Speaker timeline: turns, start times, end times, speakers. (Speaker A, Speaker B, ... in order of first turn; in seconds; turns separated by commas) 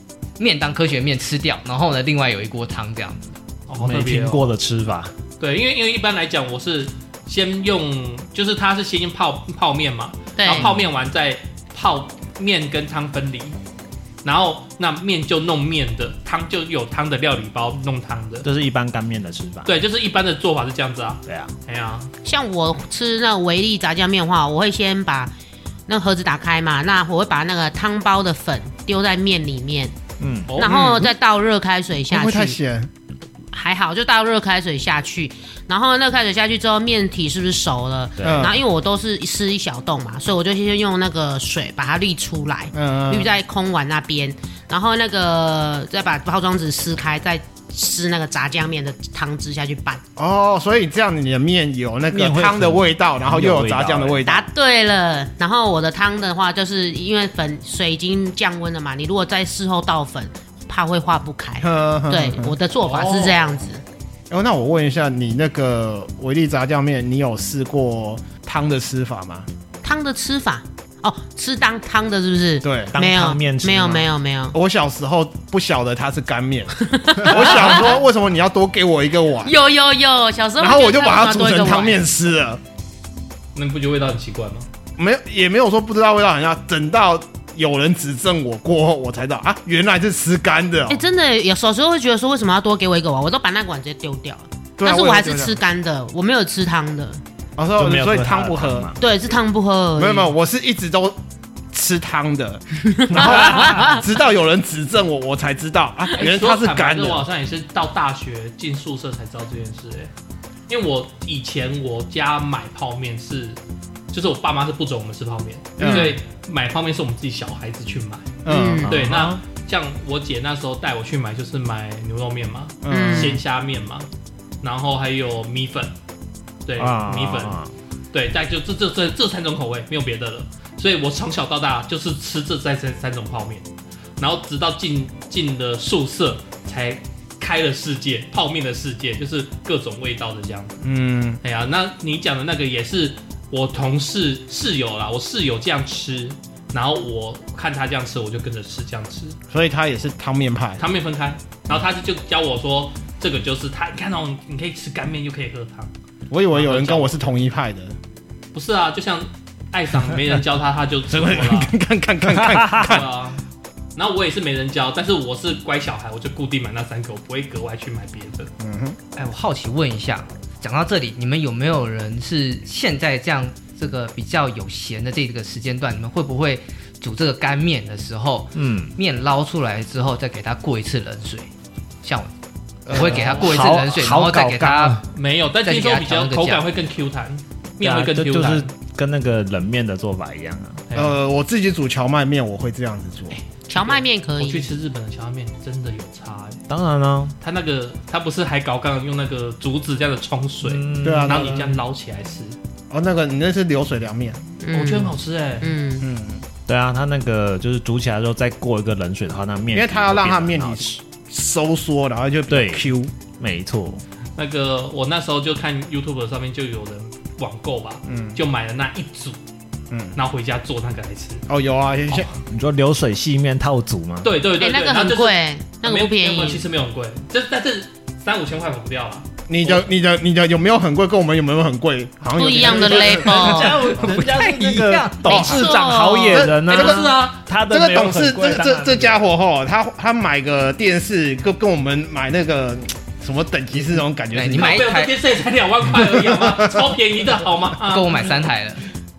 Speaker A: 0.4-3.4, Speaker B: 3.7-4.5, Speaker C: 3.8-5.1, Speaker B: 5.4-13.6, Speaker D: 10.4-10.7, Speaker C: 10.5-10.9, Speaker B: 14.2-18.5, Speaker C: 18.4-19.7, Speaker B: 19.7-22.1, Speaker C: 21.3-21.5, Speaker D: 22.2-25.3, Speaker D: 25.9-29.9, Speaker C: 30.2-30.5, Speaker B: 30.5-30.9, Speaker D: 30.6-32.6, Speaker E: 30.6-31.1, Speaker E: 32.1-32.9, Speaker D: 33.5-50.0, Speaker C: 38.2-38.5, Speaker E: 38.2-38.6, Speaker E: 42.7-43.3, Speaker E: 50.2-54.5, Speaker C: 52.1-54.2, Speaker D: 54.2-63.8, Speaker E: 61.6-62.5, Speaker B: 62.8-63.5, Speaker E: 64.3-69.5, Speaker D: 69.8-74.6, Speaker E: 72.6-73.0, Speaker C: 72.9-74.1, Speaker E: 74.5-79.5, Speaker D: 76.8-78.0, Speaker D: 79.4-82.0, Speaker E: 80.6-82.6, Speaker B: 83.5-84.7, Speaker E: 85.0-91.1, Speaker D: 90.9-97.2, Speaker E: 94.8-95.6, Speaker E: 97.6-98.9, Speaker C: 97.8-99.0, Speaker D: 99.0-100.3, Speaker E: 100.0-101.2, Speaker E: 101.7-107.2, Speaker D: 102.9-104.0, Speaker C: 103.1-103.9, Speaker B: 106.2-110.1, Speaker B: 110.7-113.6, Speaker B: 114.1-124.1, Speaker E: 115.8-116.2, Speaker D: 115.8-116.1, Speaker E: 118.5-119.0, Speaker D: 118.5-118.9, Speaker C: 118.8-119.4, Speaker E: 122.8-123.4, Speaker D: 122.9-123.4, Speaker B: 124.6-125.9, Speaker B: 126.7-127.6, Speaker C: 126.8-127.7, Speaker B: 128.1-133.7, Speaker B: 134.2-140.8, Speaker E: 140.8-141.4, Speaker B: 141.4-149.4, Speaker E: 149.5-150.8, Speaker B: 150.8-155.9, Speaker E: 156.3-157.9, Speaker B: 156.5-157.3, Speaker B: 158.5-161.8, Speaker E: 161.1-163.1, Speaker C: 162.3-163.0, Speaker B: 162.7-163.4, Speaker B: 164.0-168.5, Speaker E: 168.6-169.0, Speaker A: 169.2-181.5, Speaker C: 178.6-178.9, Speaker A: 182.0-182.3, Speaker E: 182.9-183.5, Speaker A: 182.9-185.1, Speaker B: 183.1-183.4, Speaker C: 183.1-185.0, Speaker B: 185.1-188.7, Speaker A: 185.6-186.6, Speaker C: 187.8-190.8, Speaker B: 190.9-191.2, Speaker E: 190.9-193.4, Speaker D: 193.7-194.7, Speaker B: 193.8-196.6, Speaker C: 196.7-197.3, Speaker B: 197.4-202.6, Speaker C: 200.6-201.8, Speaker E: 201.0-201.7, Speaker E: 202.9-204.4, Speaker D: 204.6-206.1, Speaker B: 204.7-205.7, Speaker E: 206.0-206.4, Speaker C: 206.7-211.0, Speaker E: 209.7-213.1, Speaker C: 212.5-212.9, Speaker C: 213.4-214.0, Speaker B: 214.4-219.4, Speaker E: 218.1-218.4, Speaker B: 220.2-221.4, Speaker E: 221.5-222.3, Speaker C: 222.5-224.3, Speaker B: 224.2-229.9, Speaker D: 224.6-226.6, Speaker E: 229.5-234.2, Speaker D: 232.3-233.9, Speaker C: 232.6-239.3, Speaker A: 233.8-235.7, Speaker E: 235.3-235.7, Speaker D: 235.3-236.5, Speaker E: 236.3-244.8, Speaker B: 236.6-237.4, Speaker A: 244.3-245.1, Speaker B: 244.5-248.5, Speaker E: 246.0-246.8, Speaker A: 247.8-248.8